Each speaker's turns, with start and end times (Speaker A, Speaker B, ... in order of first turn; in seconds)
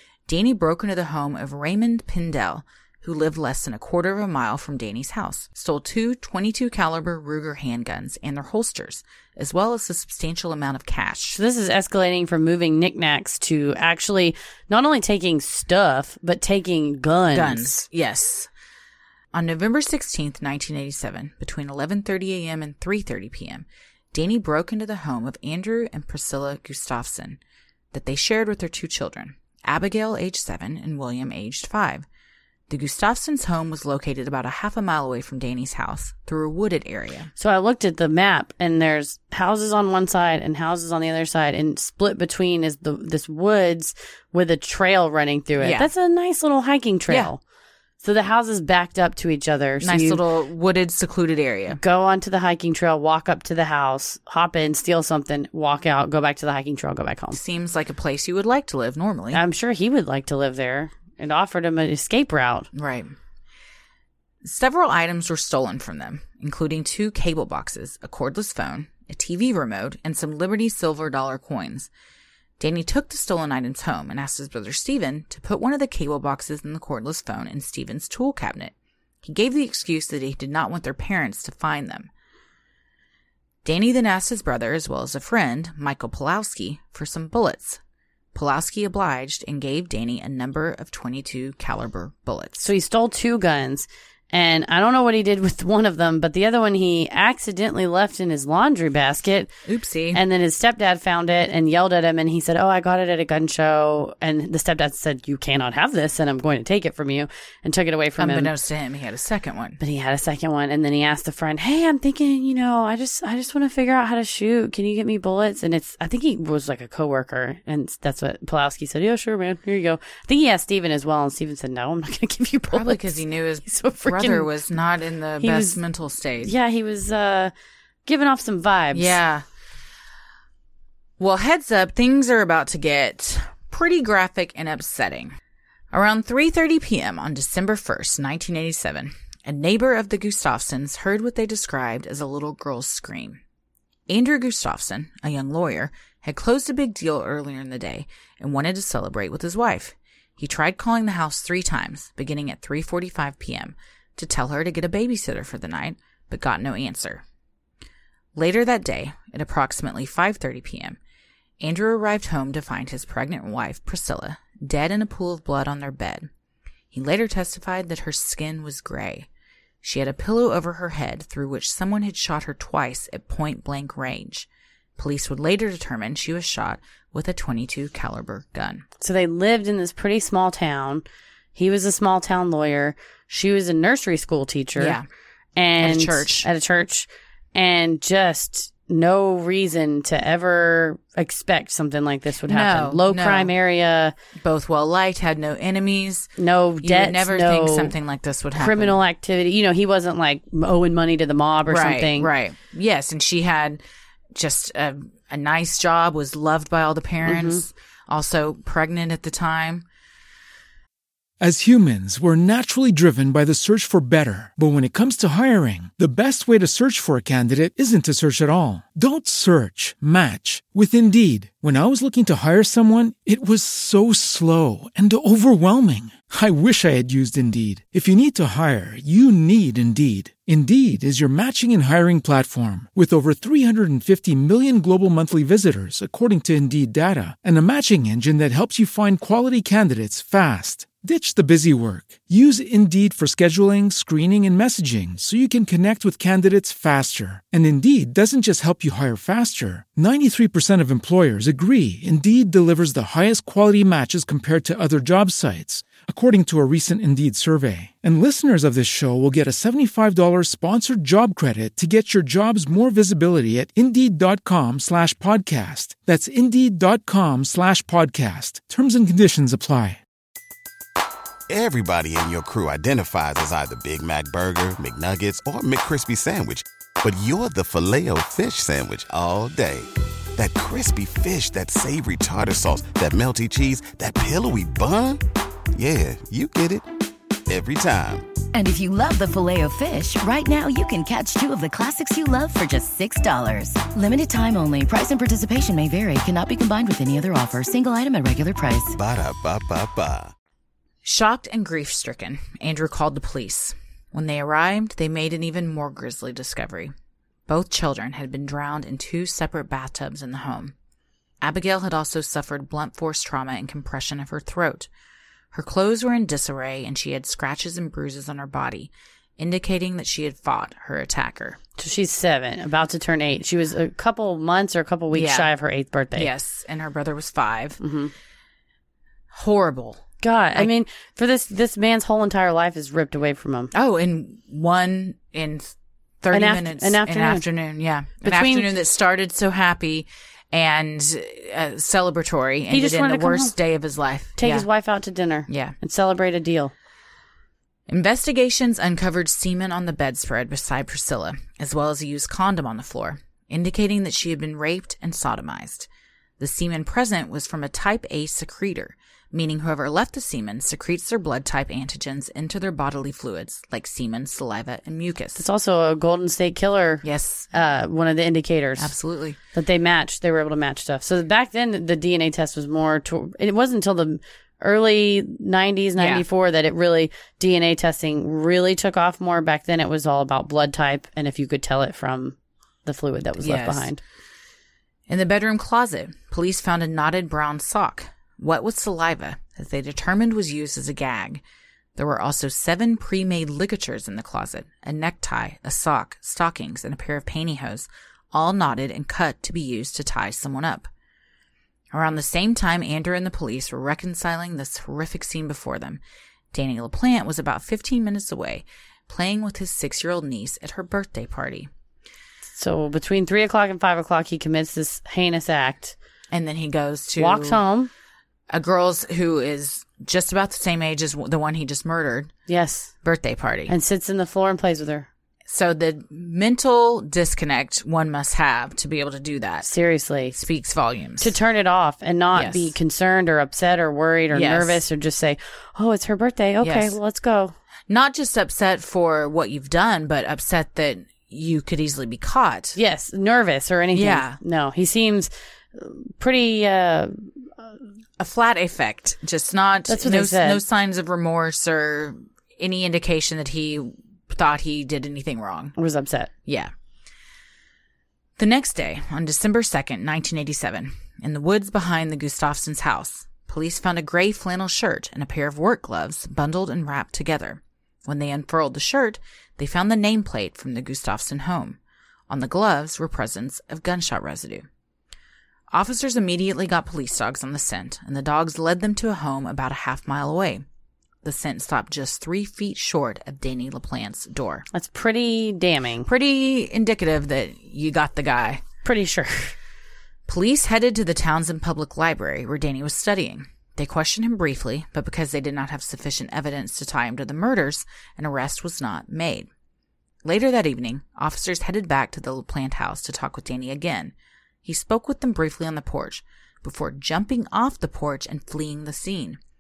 Speaker A: 0.3-11.4, 17.3-18.5, 19.3-27.4, 27.9-32.0, 32.7-37.3, 45.6-45.9, 49.8-51.8, 57.3-59.4, 62.7-63.1, 64.4-71.9, 72.6-78.7, 79.2-82.1, 83.6-87.8, 88.3-92.7, 99.7-100.2, 108.2-109.8, 122.7-126.5, 128.9-129.4, 131.2-135.3, 135.9-143.4, 144.1-157.2, 158.3-161.0, 161.6-166.3, 166.9-169.3, 169.8-178.9, 184.8-185.1, 185.8-186.5, 192.5-193.5, 194.4-199.0, 201.7-203.8, 204.3-209.8, 301.0-306.9, 307.5-310.7, 311.4-314.9, 315.5-321.6, 325.1-325.5, 326.1-327.8, 329.3-330.7, 333.7-344.6, 345.5-345.7, 347.9-355.9, 356.4-365.4, 367.0-367.5, 368.8-369.4, 376.0-376.2, 383.4-383.9, 385.1-391.4, 391.9-400.9, 401.9-406.0, 406.5-411.7, 416.3-417.6, 418.5-422.3, 423.0-423.7, 425.5-429.7, 430.3-431.3, 432.3-432.7, 434.3-434.8, 436.6-437.0, 437.9-442.8, 443.9-444.4, 448.2-455.7, 456.4-456.7, 458.4-471.8, 472.3-474.6, 475.7-480.6, 481.2-484.6, 486.1-488.6, 490.3-499.5, 500.2-504.1, 504.6-509.4
Speaker B: 11.3-17.8, 37.4-47.4, 48.0-50.2, 51.7-57.4, 59.3-62.7, 92.6-99.5, 100.1-108.5, 109.8-123.1, 123.7-124.5, 125.4-125.8, 126.4-127.5, 128.1-129.2, 179.0-181.0, 181.6-185.0, 185.6-194.1, 196.4-197.9, 198.6-202.3, 207.2-207.6, 321.8-326.3, 327.8-328.1, 330.2-333.7, 336.3-337.4, 338.2-338.7, 342.7-343.5, 344.4-346.7, 365.4-368.9, 369.5-384.0, 412.5-415.9, 417.2-417.9, 422.5-422.9, 423.7-425.1, 429.6-430.4, 431.2-437.5, 442.8-447.7, 449.9-450.6, 455.8-456.3, 484.7-486.1, 488.8-489.6
Speaker C: 211.4-270.0
Speaker D: 271.5-285.2, 285.7-286.9, 287.5-288.3, 298.9-300.3
Speaker E: 288.5-298.9